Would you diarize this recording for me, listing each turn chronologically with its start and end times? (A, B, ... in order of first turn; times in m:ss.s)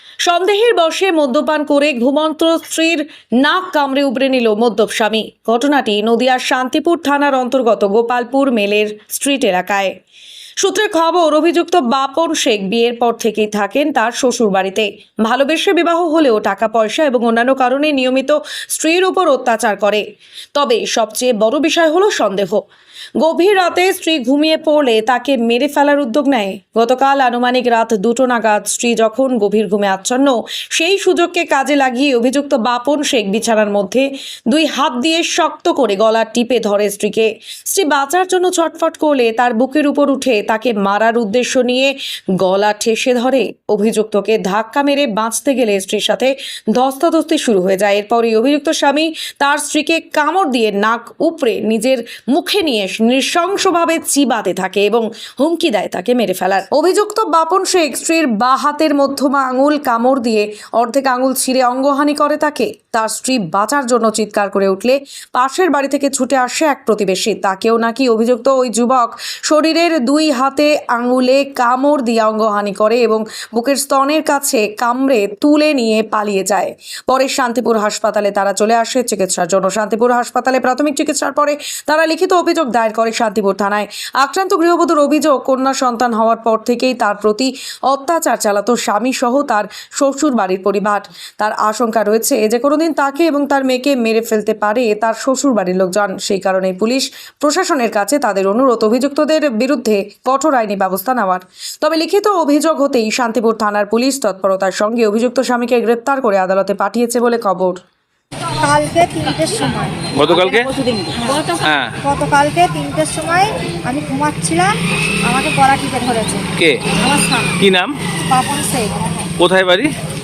0:00.2-0:09.9 A
0:10.6-0:20.0 A
0:20.5-0:22.6 A
0:23.2-1:47.8 A
1:48.6-1:56.4 B
1:50.1-1:50.7 C
1:51.6-1:51.9 C
1:56.6-1:56.8 C
1:57.0-1:57.6 B
1:57.6-1:57.9 C
1:58.2-1:58.9 B
1:59.4-1:59.9 C